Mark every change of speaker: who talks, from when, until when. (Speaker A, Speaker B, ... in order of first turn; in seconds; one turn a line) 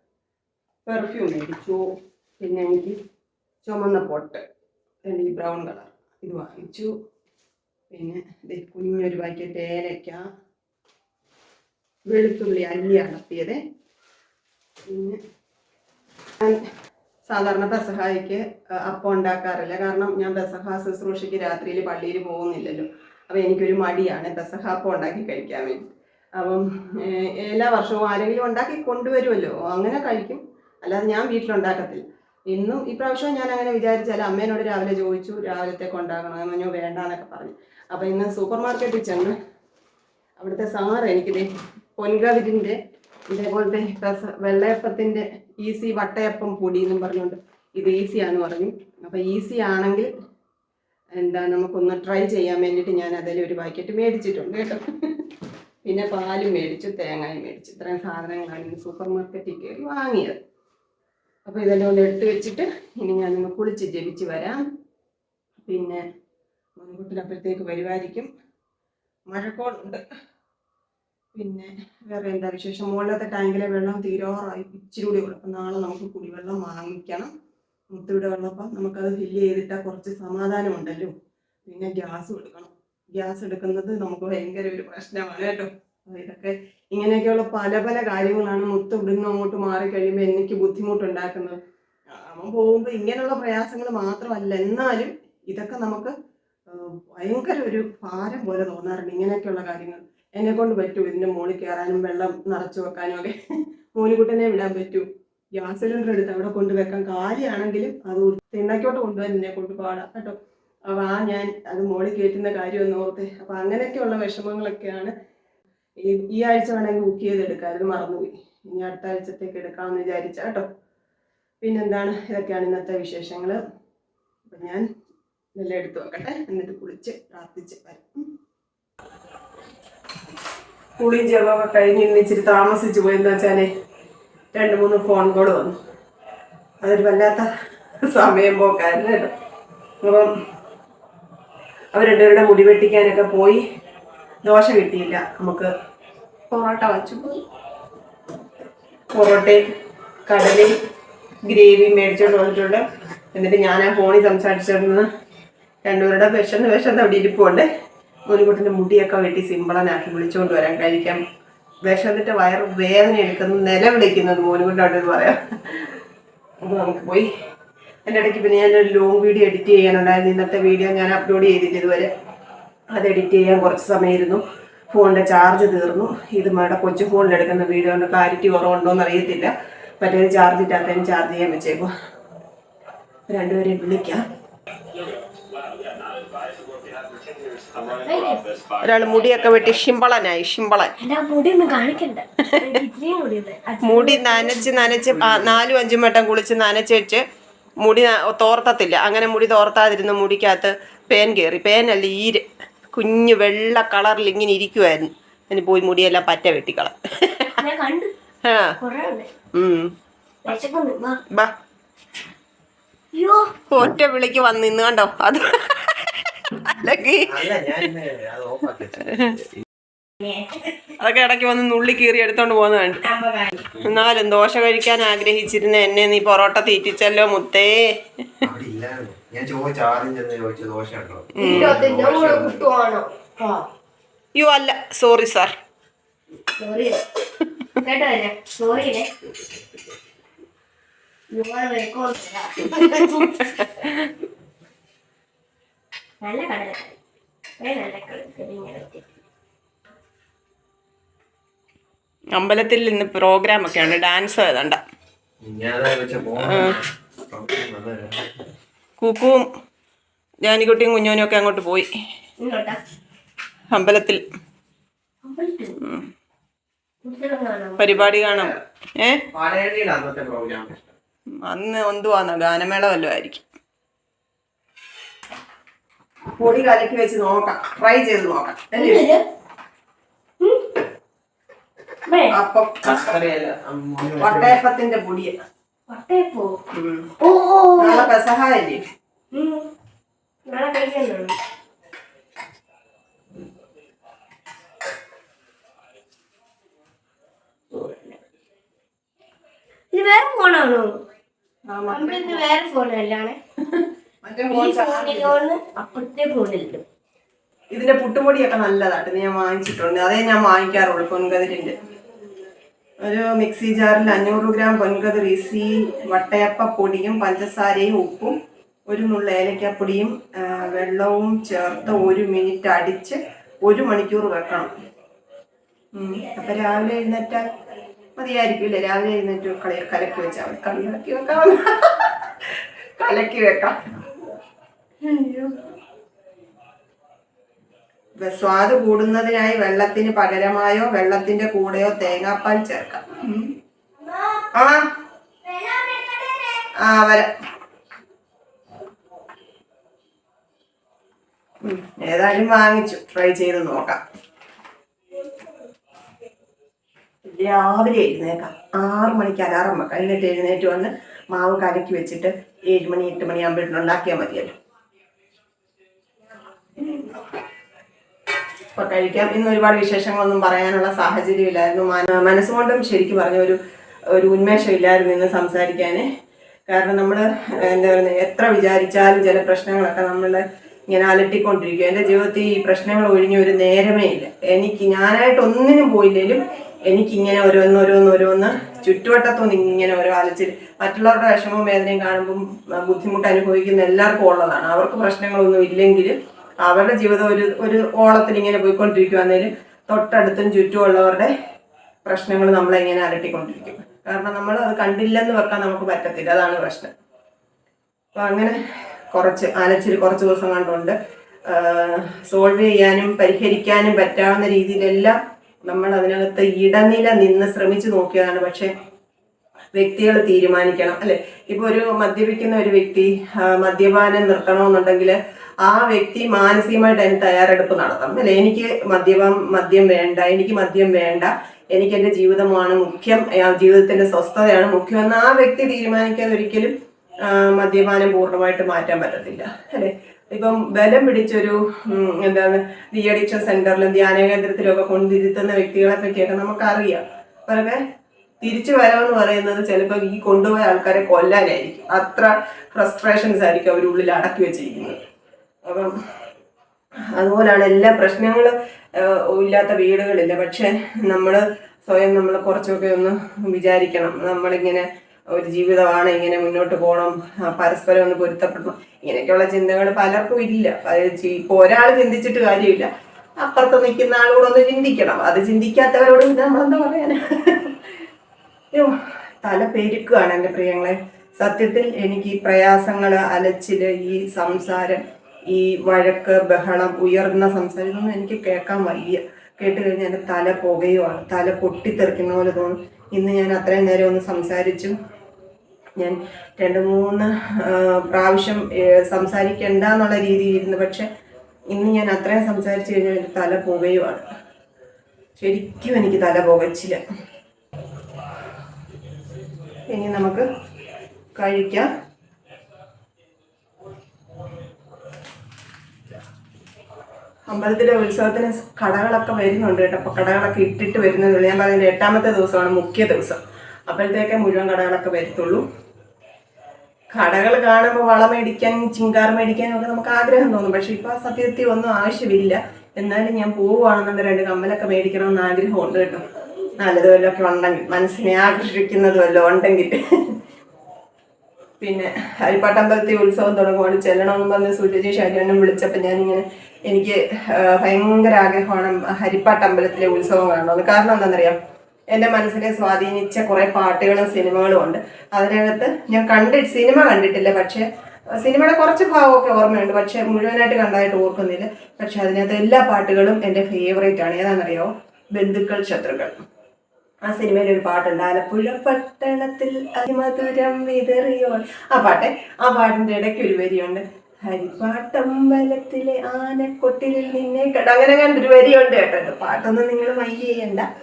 Speaker A: 0.9-1.8
Speaker A: 2.4-3.0
Speaker A: 3.6-4.4
Speaker A: 5.1-6.9
Speaker A: 7.9-10.2
Speaker A: 12.1-13.6
Speaker A: 14.9-15.2
Speaker A: 17.3-25.9
Speaker A: 26.4-39.3
Speaker A: 40.4-41.5
Speaker A: 42.0-42.8
Speaker A: 43.3-50.1
Speaker A: 51.2-54.8
Speaker A: 55.9-60.4
Speaker A: 61.5-64.6
Speaker A: 65.6-66.0
Speaker A: 66.8-68.3
Speaker A: 69.3-70.0
Speaker A: 71.3-77.3
Speaker A: 77.9-81.1
Speaker A: 81.7-91.6
Speaker A: 92.1-96.1
Speaker A: 96.7-103.3
Speaker A: 104.0-110.4
Speaker A: 110.9-115.1
Speaker A: 116.0-120.7
Speaker A: 121.6-123.6
Speaker A: 124.5-124.8
Speaker A: 125.6-128.1
Speaker A: 131.0-133.7
Speaker A: 134.5-135.7
Speaker A: 136.8-137.5
Speaker A: 138.1-139.3
Speaker A: 140.0-140.3
Speaker A: 141.9-143.6
Speaker A: 144.4-145.7
Speaker A: 146.5-147.4
Speaker A: 149.1-149.6
Speaker A: 150.3-150.7
Speaker A: 151.4-155.1
Speaker A: 155.8-157.7
Speaker A: 158.3-161.2
Speaker A: 161.8-165.4
Speaker A: 166.6-167.3
Speaker A: 168.1-172.1
Speaker A: 172.9-181.9
Speaker A: 183.3-184.2
Speaker B: 188.0-188.4
Speaker A: 188.8-190.9
Speaker B: 191.0-194.9
Speaker A: 193.8-197.2
Speaker A: 197.8-207.6
Speaker B: 207.6-208.1
Speaker A: 208.4-208.8
Speaker B: 208.8-209.3
Speaker A: 209.5-209.9
Speaker B: 210.4-211.2
Speaker B: 213.1-213.5
Speaker A: 213.7-217.2
Speaker C: 217.3-219.3
Speaker B: 220.2-220.5
Speaker A: 221.0-223.1
Speaker B: 223.1-223.6
Speaker A: 223.7-227.8
Speaker C: 228.4-232.7
Speaker A: 231.3-231.8
Speaker B: 231.4-233.6
Speaker A: 234.3-235.5
Speaker B: 236.6-237.0
Speaker B: 237.8-239.1
Speaker B: 241.3-243.4
Speaker A: 242.7-244.1
Speaker B: 246.2-247.0
Speaker B: 247.6-249.0
Speaker A: 252.3-254.8
Speaker C: 255.4-256.8
Speaker A: 256.4-256.8
Speaker C: 257.3-258.5
Speaker A: 259.0-259.4
Speaker A: 260.4-261.9
Speaker B: 262.4-262.8
Speaker A: 263.7-264.2
Speaker B: 265.2-265.8
Speaker B: 267.0-268.1
Speaker A: 267.8-269.2
Speaker C: 269.3-270.9
Speaker A: 271.4-273.4
Speaker A: 276.4-279.1
Speaker B: 278.7-279.2
Speaker B: 282.1-282.4
Speaker A: 282.3-283.2
Speaker C: 282.8-284.6
Speaker A: 284.2-285.3
Speaker B: 285.9-286.6
Speaker A: 286.7-287.1
Speaker B: 287.2-288.1
Speaker A: 287.8-288.8
Speaker B: 289.3-289.7
Speaker B: 290.5-291.3
Speaker B: 297.7-298.2
Speaker B: 299.9-300.9
Speaker A: 301.7-302.5
Speaker B: 301.9-303.4
Speaker A: 303.7-305.5
Speaker B: 304.5-306.8
Speaker A: 307.7-311.8
Speaker A: 313.0-318.3
Speaker A: 318.9-324.7
Speaker A: 325.9-327.5
Speaker A: 328.2-332.3
Speaker A: 333.0-333.8
Speaker A: 335.0-335.6
Speaker A: 338.2-343.5
Speaker A: 344.6-344.8
Speaker B: 345.5-346.5
Speaker A: 346.8-347.3
Speaker A: 351.6-354.0
Speaker A: 357.3-364.5
Speaker A: 368.8-373.6
Speaker A: 374.1-376.0
Speaker A: 376.7-401.3
Speaker A: 402.1-406.9
Speaker A: 408.1-408.6
Speaker A: 409.1-410.9
Speaker A: 411.5-418.7
Speaker A: 419.8-436.7
Speaker A: 437.3-447.8
Speaker A: 448.4-455.0
Speaker A: 457.1-472.9
Speaker A: 473.4-477.7
Speaker A: 479.4-494.9
Speaker A: 496.0-501.1
Speaker A: 501.7-504.2
Speaker A: 505.4-507.0
Speaker A: 509.9-510.4
Speaker A: 511.4-511.9
Speaker A: 517.5-525.6
Speaker A: 527.1-536.2
Speaker A: 536.8-540.0
Speaker A: 541.8-551.6
Speaker A: 552.1-557.8
Speaker A: 558.4-566.4
Speaker A: 567.2-580.9